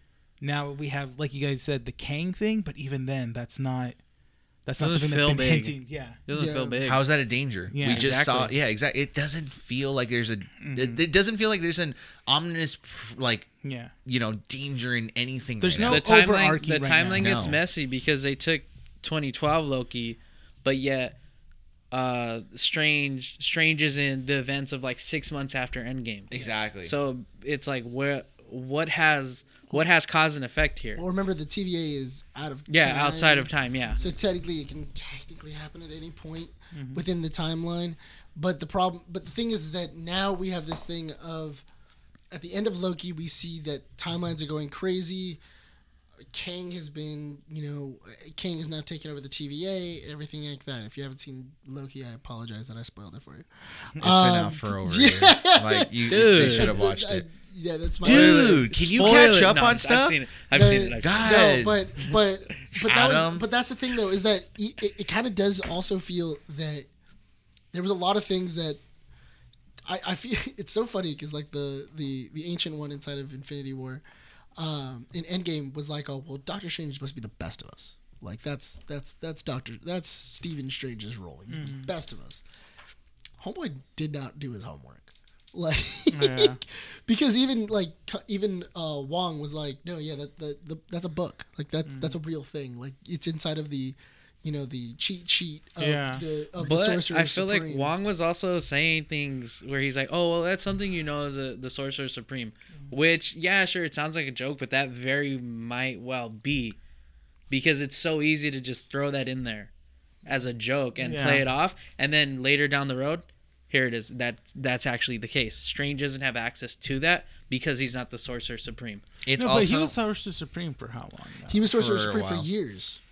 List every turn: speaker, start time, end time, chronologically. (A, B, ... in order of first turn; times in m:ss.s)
0:00.4-0:04.0 A
0:04.6-0:06.2 A
0:04.8-0:05.8 B
0:06.3-0:07.1 B
0:06.3-0:06.8 C
0:06.8-0:13.5 D
0:07.7-0:08.1 A
0:07.8-0:08.5 B
0:10.6-0:11.0 A
0:13.6-0:13.9 A
0:14.0-0:16.0 D
0:15.6-0:17.4 A
0:15.8-0:21.1 B
0:17.2-0:17.6 D
0:21.9-0:31.0 B
0:26.3-0:26.9 D
0:31.0-0:41.6 C
0:32.7-0:34.0 B
0:36.7-0:37.0 A
0:42.3-0:45.4 C
0:46.3-0:59.2 C
0:54.0-0:57.2 D
0:56.1-0:56.8 B
0:58.0-1:00.2 D
0:58.0-1:01.6 B
1:00.5-1:06.9 C
1:01.0-1:01.8 D
1:02.8-1:03.4 D
1:07.7-1:08.8 C
1:09.8-1:14.0 C
1:14.6-1:22.4 C
1:21.5-1:21.9 A
1:23.4-1:37.9 C
1:26.1-1:26.6 A
1:31.8-1:32.2 A
1:35.8-1:36.2 A
1:36.6-1:46.8 B
1:47.5-1:49.7 B
1:50.2-1:59.0 B
1:51.0-1:51.4 A
1:59.2-1:59.9 D
1:59.4-2:01.6 A
2:01.5-2:03.0 C
2:01.7-2:02.5 D